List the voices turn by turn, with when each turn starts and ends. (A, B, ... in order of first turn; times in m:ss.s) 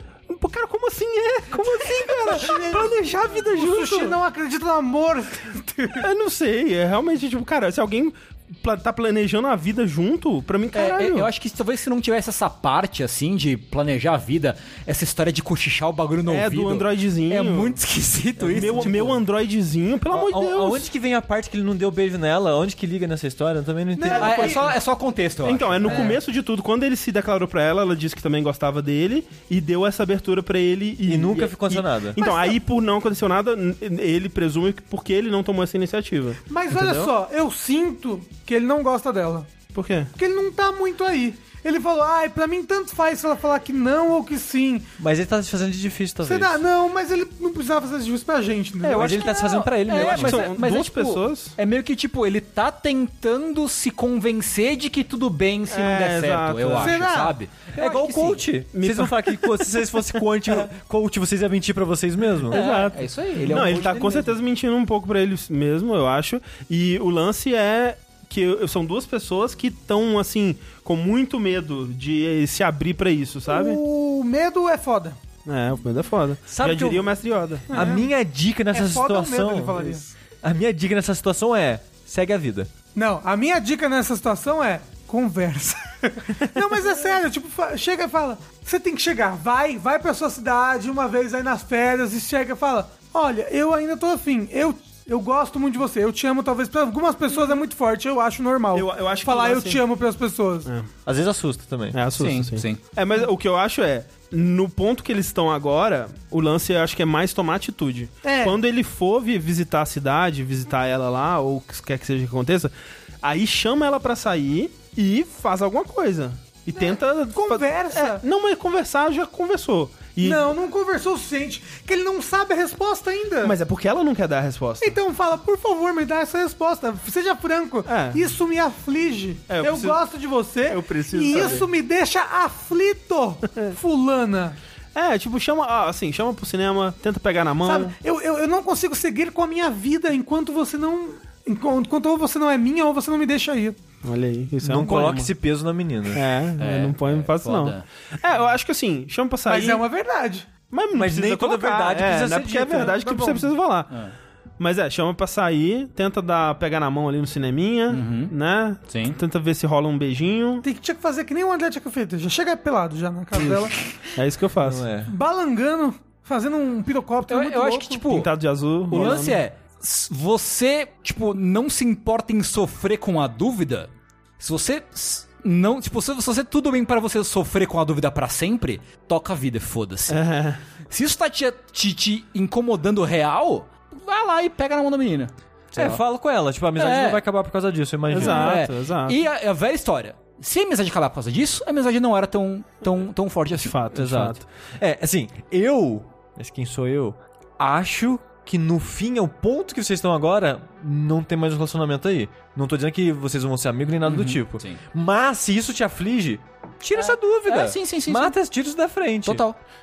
0:00.3-0:04.2 A
0:01.8-0:06.1 B
0:06.0-0:11.3 A
0:10.7-0:19.2 C
0:16.3-0:17.8 A
0:18.4-0:19.0 D
0:18.4-0:20.9 A
0:20.1-0:24.7 D
0:24.0-0:24.7 B
0:24.1-0:26.1 C
0:25.4-0:37.1 A
0:31.1-0:32.2 D
0:32.2-0:32.6 B
0:36.5-0:39.5 B
0:39.7-0:40.1 A
0:40.2-0:44.9 B
0:45.0-0:46.6 D
0:46.2-0:49.3 B
0:48.8-0:51.6 A
0:48.9-0:50.4 D
0:49.1-0:58.4 C
0:55.7-0:57.0 A
0:56.8-0:57.4 B
0:57.7-1:02.6 D
0:58.7-1:00.0 A
1:02.5-1:04.3 C
1:02.5-1:13.8 A
1:13.5-1:15.2 B
1:15.4-1:17.7 A
1:16.5-1:17.1 D
1:17.7-1:18.1 B
1:17.7-1:22.7 D
1:18.7-1:20.1 B
1:22.9-1:40.7 B
1:38.7-1:39.8 A
1:41.0-1:42.0 D
1:41.9-2:00.5 A
1:42.2-1:42.8 C
1:48.2-1:48.6 B
1:57.3-1:58.2 B
2:00.2-2:03.6 B
2:03.4-2:05.0 A
2:04.8-2:14.6 B
2:07.8-2:08.4 A
2:09.5-2:10.0 A
2:10.7-2:11.7 A
2:14.9-2:17.9 A
2:17.6-2:23.8 B
2:24.0-2:25.3 A
2:24.6-2:26.2 D
2:26.1-2:29.8 A
2:26.6-2:27.8 C
2:29.5-2:30.5 B
2:30.7-2:34.0 A
2:30.9-2:33.1 D
2:32.9-2:33.5 B
2:34.6-2:40.6 A
2:37.9-2:38.3 C
2:38.9-2:39.2 C
2:40.6-2:43.7 B
2:44.1-2:44.9 A
2:44.6-2:45.1 D
2:45.0-2:48.0 B
2:47.3-2:48.3 C
2:48.1-2:49.4 A
2:48.9-3:00.2 C
2:48.9-2:49.3 B
3:00.1-3:00.6 A
3:00.9-3:06.0 C
3:05.7-3:08.6 D
3:06.8-3:07.2 C
3:08.1-3:09.2 A
3:08.1-3:13.8 C
3:13.6-3:14.5 A
3:13.9-3:29.4 D
3:24.0-3:24.8 C
3:27.0-3:28.4 C
3:29.2-3:29.6 C